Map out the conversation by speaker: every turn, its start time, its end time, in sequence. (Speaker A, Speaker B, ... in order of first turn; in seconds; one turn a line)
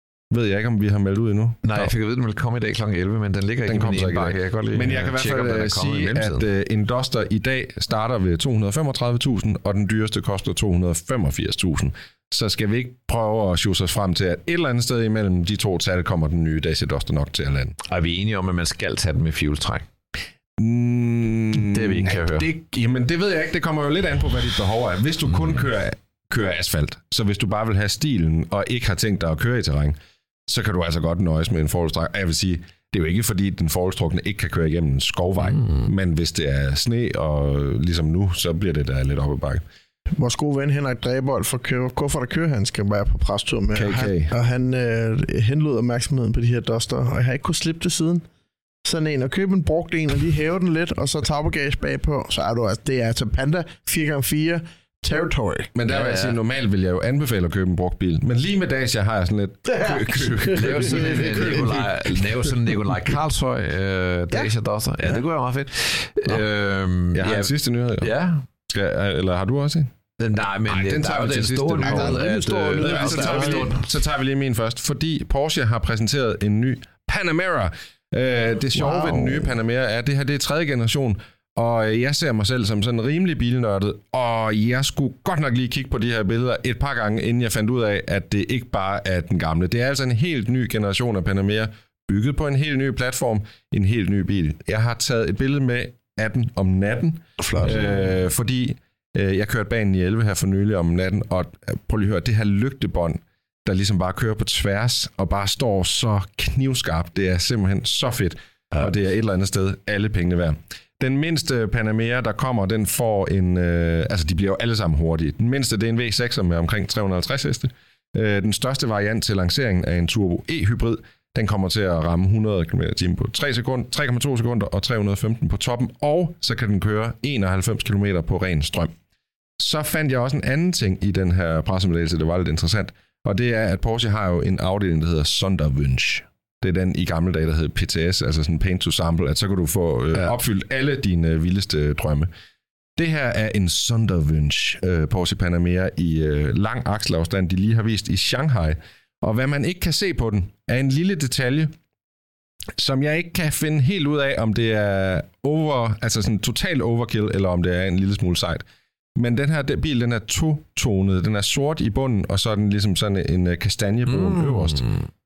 Speaker A: 0.3-1.9
Speaker B: 1.6-6.5
Speaker A: 3.6-17.8
Speaker B: 17.9-19.8
Speaker A: 20.6-39.6
Speaker B: 21.5-22.5
Speaker B: 35.6-35.9
Speaker C: 40.1-48.2
Speaker A: 43.7-44.3
Speaker C: 48.8-55.7
Speaker A: 55.7-62.5
Speaker B: 55.9-56.4
Speaker C: 59.7-61.6
Speaker B: 59.9-68.4
Speaker A: 67.1-68.1
Speaker A: 68.7-69.9
Speaker B: 70.2-73.8
Speaker A: 70.7-72.2
Speaker C: 71.8-73.8
Speaker A: 72.8-128.9
Speaker C: 78.7-79.5
Speaker C: 97.4-97.9
Speaker A: 129.6-142.3
Speaker A: 143.0-151.7
Speaker A: 152.8-158.6
Speaker A: 159.2-164.9
Speaker B: 164.1-165.1